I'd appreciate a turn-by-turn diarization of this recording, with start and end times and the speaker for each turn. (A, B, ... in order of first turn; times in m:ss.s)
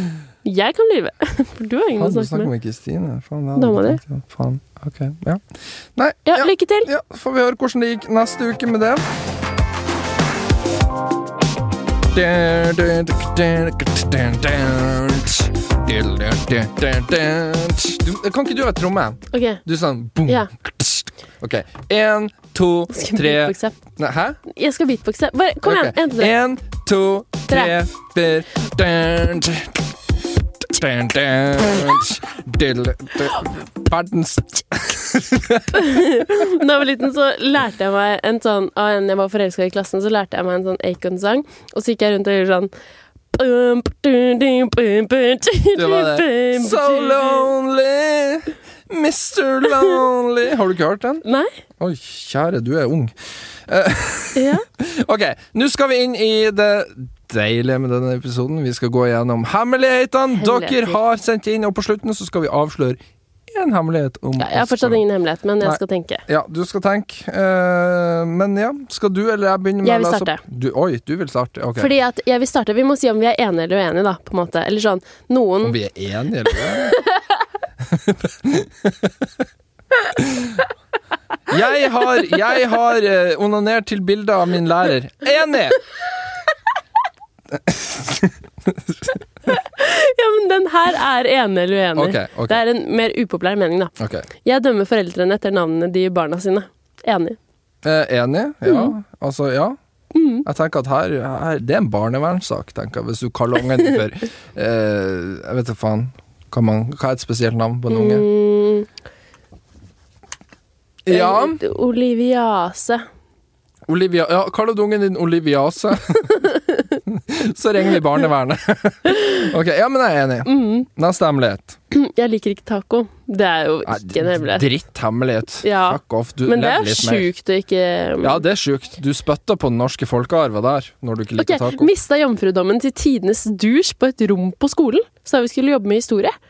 0:00.4-0:02.5 A
0:02.0-0:05.4 B
0:03.6-0:04.0 A
0:06.0-0:09.0 B
0:06.3-0:06.9 A
0:12.1-0:24.4 B
0:19.3-0:19.6 A
0:22.9-0:23.8 A
0:24.5-0:26.3 A
0:25.6-0:29.8 B
0:30.6-0:36.5 B
0:35.7-0:42.7 A
0:43.3-0:47.5 A
0:45.8-0:51.2 B
0:51.2-0:51.5 A
0:51.8-0:53.2 B
0:53.7-1:05.0 B
0:54.4-0:54.6 A
1:00.3-1:01.0 A
1:04.4-1:06.2 A
1:05.6-1:11.9 B
1:09.8-1:10.4 A
1:11.8-1:15.8 A
1:15.6-1:17.0 B
1:16.8-1:17.0 A
1:17.8-1:19.3 B
1:20.2-1:20.6 B
1:21.5-1:25.8 B
1:27.5-1:29.2 B
1:29.5-1:37.4 A
1:32.0-1:32.6 B
1:34.0-1:34.3 B
1:37.8-1:39.8 B
1:38.7-1:38.9 A
1:40.1-1:40.5 A
1:40.4-1:48.3 B
1:47.9-1:48.9 A
1:51.0-1:51.6 B
1:51.1-1:53.1 A
1:53.9-1:56.5 B
1:56.3-1:57.0 A
1:57.1-2:01.8 B
1:59.1-1:59.4 A
2:00.4-2:00.9 A
2:01.9-2:04.7 A
2:03.8-2:07.3 B
2:05.6-2:08.4 A
2:08.2-2:11.9 B
2:11.4-2:16.4 A